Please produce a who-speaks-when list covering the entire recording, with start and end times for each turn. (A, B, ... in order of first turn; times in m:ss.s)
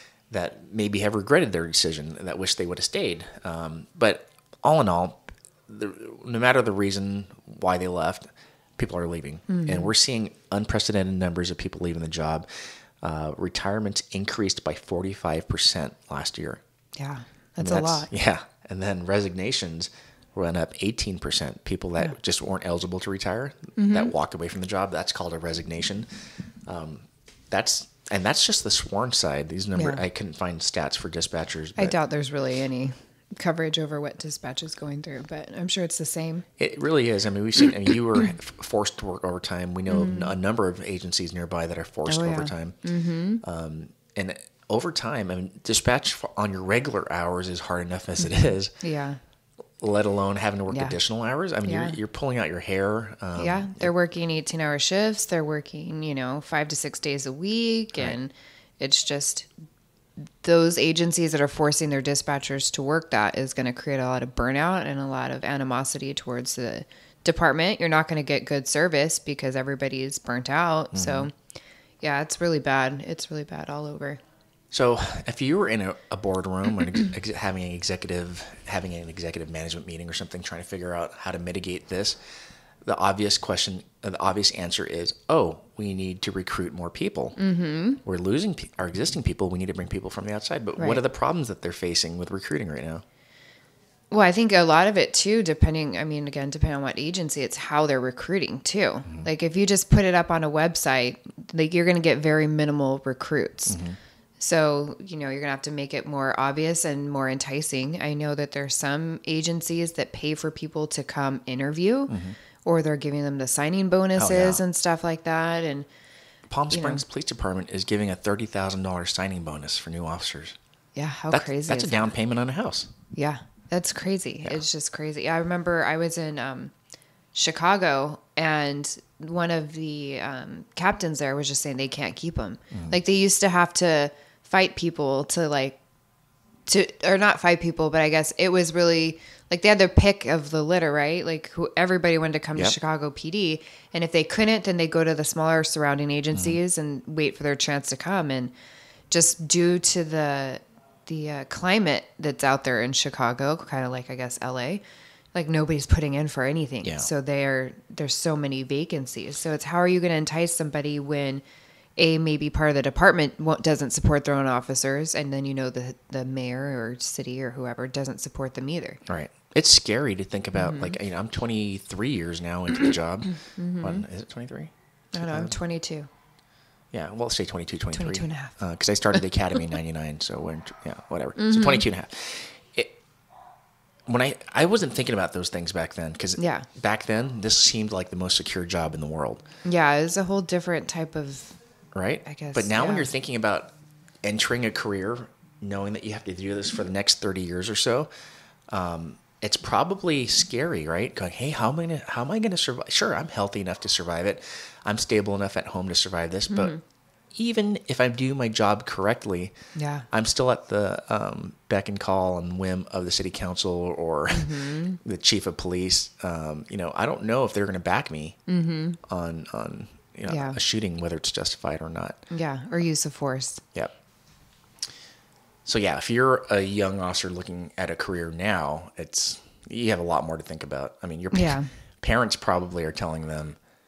0:00.3-0:12.5 A
0:09.5-0:09.9 B
0:13.0-0:16.6 A
0:17.0-0:18.1 B
0:17.6-0:26.1 A
0:23.8-0:24.1 B
0:26.7-0:32.0 A
0:29.7-0:30.0 B
0:31.8-0:36.4 B
0:36.6-0:42.8 A
0:39.9-0:40.3 B
0:42.1-0:43.4 B
0:43.4-0:48.7 A
0:48.8-0:49.2 B
0:49.8-0:53.9 A
0:50.7-0:50.9 B
0:51.6-0:52.0 B
0:53.4-0:59.5 B
1:00.4-1:11.3 B
1:10.9-1:11.3 A
1:12.0-1:14.2 B
1:14.7-1:22.2 A
1:22.8-1:27.4 A
1:27.4-1:28.0 B
1:28.0-1:33.0 A
1:34.1-1:43.8 B
1:43.7-1:44.0 A
1:44.4-1:55.9 B
1:52.1-1:52.4 A
1:54.2-1:54.6 A
1:56.5-2:00.6 A
1:56.7-1:57.0 B
2:01.0-2:02.1 B
2:01.3-2:02.9 A
2:03.1-2:06.7 B
2:07.3-2:15.8 B
2:12.7-2:13.0 A
2:16.7-2:28.5 B
2:26.3-2:26.6 A
2:29.1-2:34.8 B
2:35.3-2:41.4 B
2:36.8-2:37.1 A
2:42.0-2:49.0 B
2:49.0-2:55.6 A
2:50.6-2:51.0 B
2:53.6-2:54.0 B
2:55.1-2:56.1 B
2:56.9-3:03.0 A
2:57.9-2:58.5 B
3:01.4-3:01.8 B
3:04.1-3:09.4 A
3:06.4-3:06.7 B
3:09.6-3:11.6 B
3:11.9-3:13.7 A
3:12.2-3:13.1 B
3:14.2-3:18.1 A
3:18.7-3:26.8 A
3:26.5-3:26.8 B
3:27.3-3:29.5 A
3:29.7-3:30.0 B
3:30.1-3:38.4 A
3:34.3-3:35.0 B
3:38.5-3:39.0 B
3:39.0-3:42.2 A
3:40.3-3:40.6 B
3:42.3-3:43.6 B
3:45.6-3:53.6 A
3:51.3-3:51.7 B